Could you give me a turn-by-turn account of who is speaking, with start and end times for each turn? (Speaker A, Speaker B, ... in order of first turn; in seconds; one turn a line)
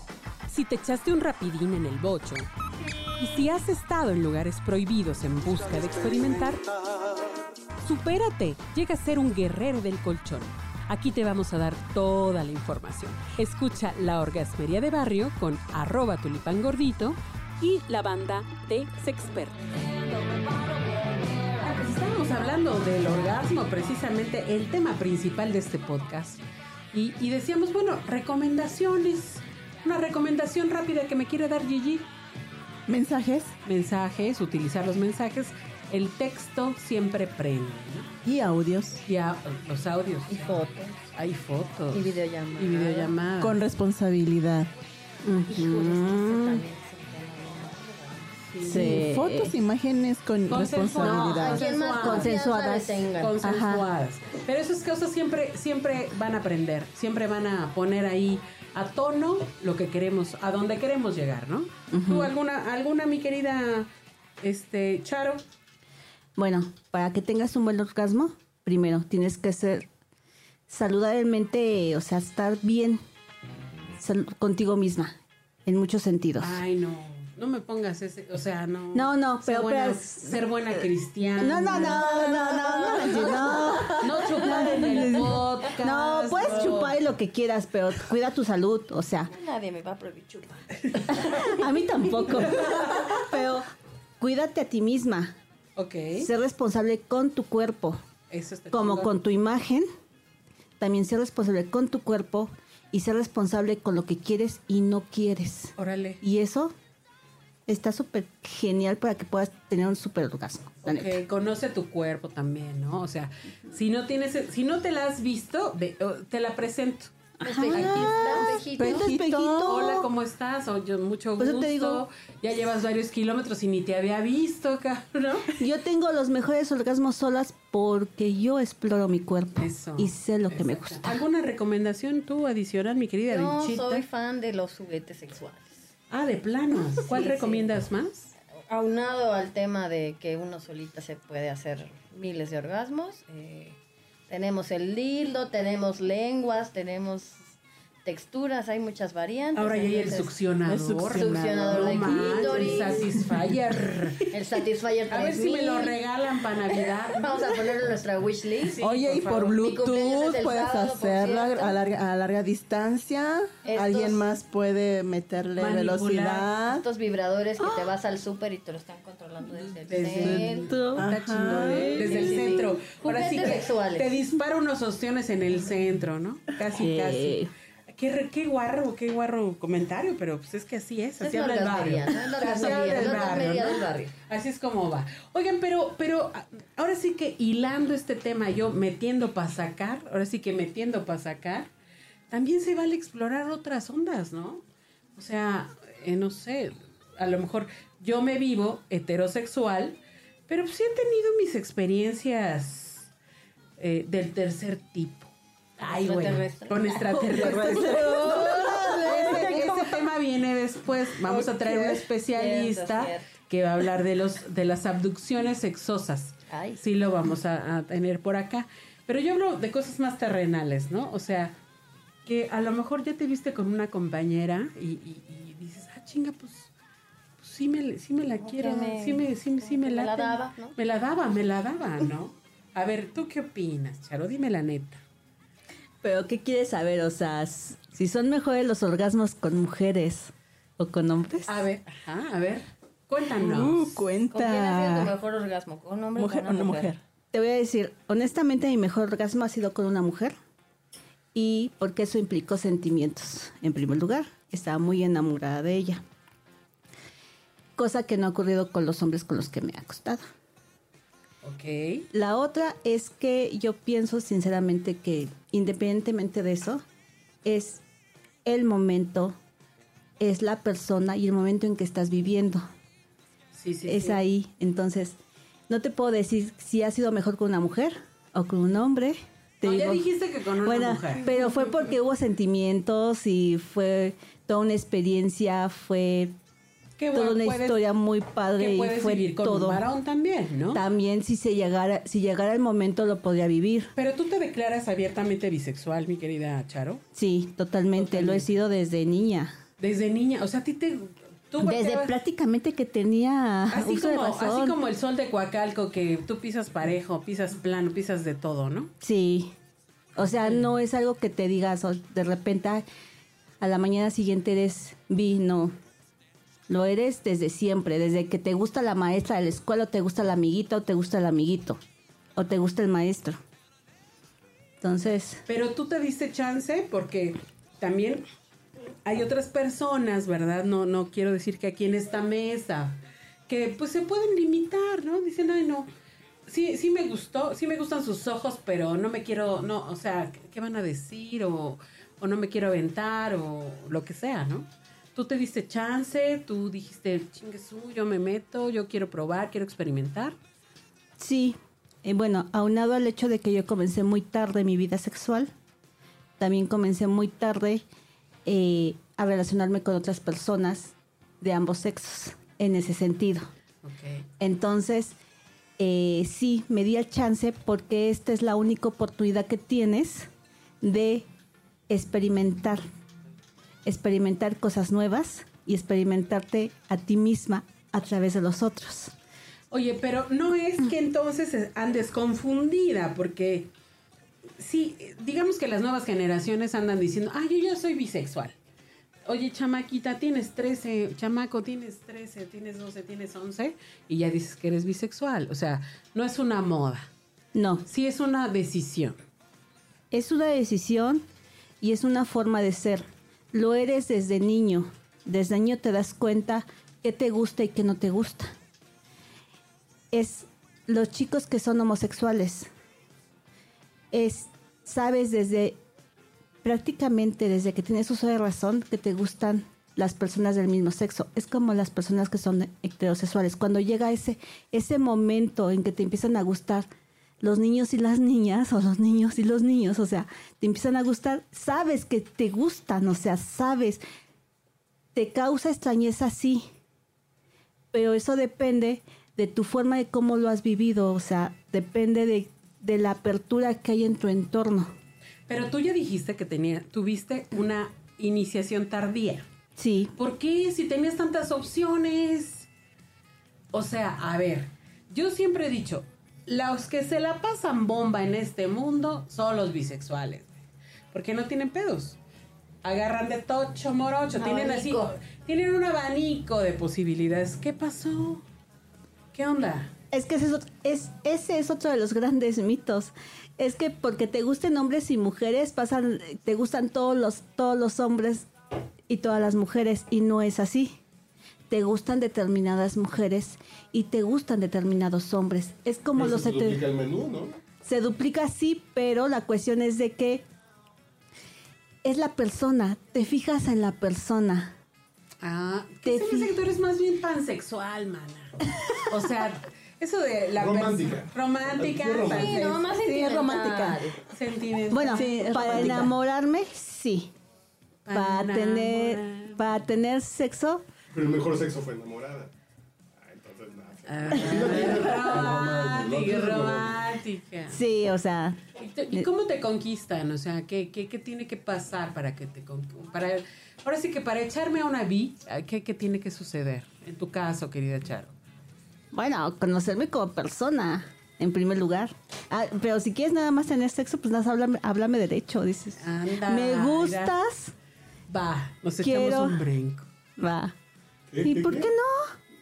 Speaker A: 0.5-2.5
Speaker A: 3.2-6.6
Speaker A: 7.8-20.3
Speaker A: 21.6-26.4
Speaker A: 26.9-32.1
Speaker B: 32.9-33.5
Speaker A: 33.6-38.1
Speaker B: 38.2-39.0
Speaker A: 39.0-40.6
Speaker C: 40.3-41.0
Speaker A: 41.1-43.6
Speaker C: 41.9-43.2
Speaker B: 43.4-44.7
Speaker D: 45.2-46.6
Speaker C: 45.5-48.4
Speaker A: 48.5-49.0
Speaker D: 48.6-49.5
Speaker B: 48.6-51.6
Speaker A: 50.5-52.4
Speaker C: 51.0-53.4
Speaker D: 51.0-53.9
Speaker A: 53.2-63.9
Speaker D: 61.9-62.3
Speaker A: 64.4-65.4
Speaker D: 66.4-69.9
Speaker D: 70.7-73.0
Speaker D: 74.0-75.1
Speaker D: 75.7-76.6
Speaker A: 76.4-82.0
Speaker D: 78.9-80.4
Speaker D: 81.4-89.3
Speaker C: 81.6-85.3
Speaker A: 84.0-87.0
Speaker C: 89.3-91.7
Speaker A: 90.9-91.2
Speaker D: 91.1-93.6
Speaker A: 92.5-93.1
Speaker D: 94.2-95.3
Speaker A: 95.8-96.3
Speaker D: 96.2-98.0
Speaker A: 98.3-99.1
Speaker D: 98.7-99.8
Speaker D: 100.8-106.7
Speaker A: 105.8-106.2
Speaker D: 107.7-111.2
Speaker A: 110.8-117.1
Speaker D: 117.4-120.1
Speaker C: 117.4-119.0
Speaker A: 117.7-119.1
Speaker B: 117.7-119.8
Speaker A: 119.6-125.6
Speaker D: 121.4-122.0
Speaker D: 125.5-131.2
Speaker A: 129.6-134.0
Speaker C: 133.3-135.8
Speaker A: 136.1-138.3
Speaker C: 137.0-137.7
Speaker C: 138.7-147.5
Speaker C: 148.0-150.4
Speaker A: 149.5-154.3
Speaker B: 150.7-152.8
Speaker C: 151.1-153.1
Speaker C: 154.3-155.9
Speaker A: 155.1-157.3
Speaker C: 157.1-158.8
Speaker A: 158.6-159.6
Speaker B: 158.8-166.8
Speaker C: 159.5-161.8
Speaker C: 163.6-164.3
Speaker A: 165.6-166.5
Speaker C: 166.6-170.7
Speaker D: 167.6-167.9
Speaker A: 169.8-191.7
Speaker B: 170.2-172.4
Speaker D: 170.6-171.1
Speaker D: 171.6-172.3
Speaker C: 172.0-174.1
Speaker D: 176.8-177.5
Speaker C: 181.2-184.1
Speaker A: 192.3-194.6
Speaker A: 195.2-203.1
Speaker A: 203.8-221.6
Speaker C: 205.8-208.2
Speaker D: 207.3-209.8
Speaker B: 207.3-209.9
Speaker B: 211.2-212.0
Speaker C: 212.3-213.3
Speaker C: 216.5-216.8
Speaker A: 222.2-226.7
Speaker A: 227.4-235.0
Speaker C: 228.4-230.8
Speaker D: 236.0-241.6
Speaker A: 241.4-244.0
Speaker B: 243.4-245.1
Speaker C: 244.3-246.9
Speaker B: 246.1-247.0
Speaker D: 247.3-250.3
Speaker D: 251.3-256.0
Speaker D: 257.8-260.2
Speaker A: 261.4-262.1
Speaker D: 262.1-266.8
Speaker D: 267.4-267.8
Speaker D: 268.4-269.3
Speaker D: 270.2-272.6
Speaker A: 273.5-274.2
Speaker D: 273.9-275.2
Speaker D: 275.7-280.1
Speaker A: 279.6-281.3
Speaker D: 280.6-286.3
Speaker A: 287.0-287.8
Speaker D: 287.1-289.8
Speaker A: 288.6-290.8
Speaker D: 290.7-293.9
Speaker A: 293.9-297.0
Speaker D: 297.1-299.5
Speaker A: 297.9-298.5
Speaker A: 299.8-302.1
Speaker D: 301.6-304.8
Speaker A: 303.7-308.9
Speaker D: 309.0-309.5
Speaker D: 310.1-312.8
Speaker A: 310.2-310.6
Speaker D: 313.6-315.7
Speaker D: 316.7-321.8
Speaker D: 322.4-323.4
Speaker D: 324.8-325.4
Speaker A: 325.5-328.2
Speaker A: 329.0-335.9
Speaker A: 336.4-350.3
Speaker D: 351.2-355.5
Speaker D: 356.4-357.9
Speaker D: 358.4-363.4
Speaker A: 363.8-364.3
Speaker D: 364.4-365.1
Speaker D: 365.8-370.3
Speaker D: 370.8-371.2
Speaker D: 371.9-372.8
Speaker D: 373.8-379.1
Speaker A: 379.7-383.7
Speaker A: 384.6-388.6
Speaker A: 389.2-397.1
Speaker D: 397.5-397.9
Speaker A: 397.9-399.1
Speaker D: 400.1-401.2
Speaker D: 401.8-408.5
Speaker D: 410.1-412.7
Speaker D: 414.1-415.8
Speaker D: 416.6-426.9
Speaker D: 427.4-434.0
Speaker D: 435.1-436.6
Speaker D: 437.9-444.9
Speaker A: 445.5-449.4
Speaker D: 449.8-450.1
Speaker A: 450.2-452.7
Speaker A: 453.7-460.6
Speaker A: 461.1-462.2
Speaker A: 462.8-468.4
Speaker C: 464.3-465.1
Speaker A: 469.3-469.9
Speaker D: 470.1-478.5
Speaker D: 479.1-480.9
Speaker D: 481.7-486.9
Speaker E: 486.1-487.6
Speaker D: 487.8-490.4
Speaker D: 492.0-494.7
Speaker A: 495.4-502.8
Speaker D: 496.0-496.6
Speaker E: 500.5-502.6
Speaker B: 502.1-504.1
Speaker C: 502.2-504.2
Speaker A: 504.3-505.9
Speaker D: 504.9-507.3
Speaker B: 505.0-506.1
Speaker A: 508.0-509.7
Speaker D: 508.1-510.8
Speaker E: 511.1-512.5
Speaker E: 513.2-517.0
Speaker A: 514.0-517.8
Speaker C: 514.3-514.9
Speaker D: 517.7-518.6
Speaker A: 518.7-528.3
Speaker D: 529.1-537.7
Speaker A: 536.0-537.4
Speaker A: 538.3-540.1
Speaker D: 539.0-539.6
Speaker D: 540.4-540.7
Speaker E: 541.3-541.9
Speaker D: 541.4-542.3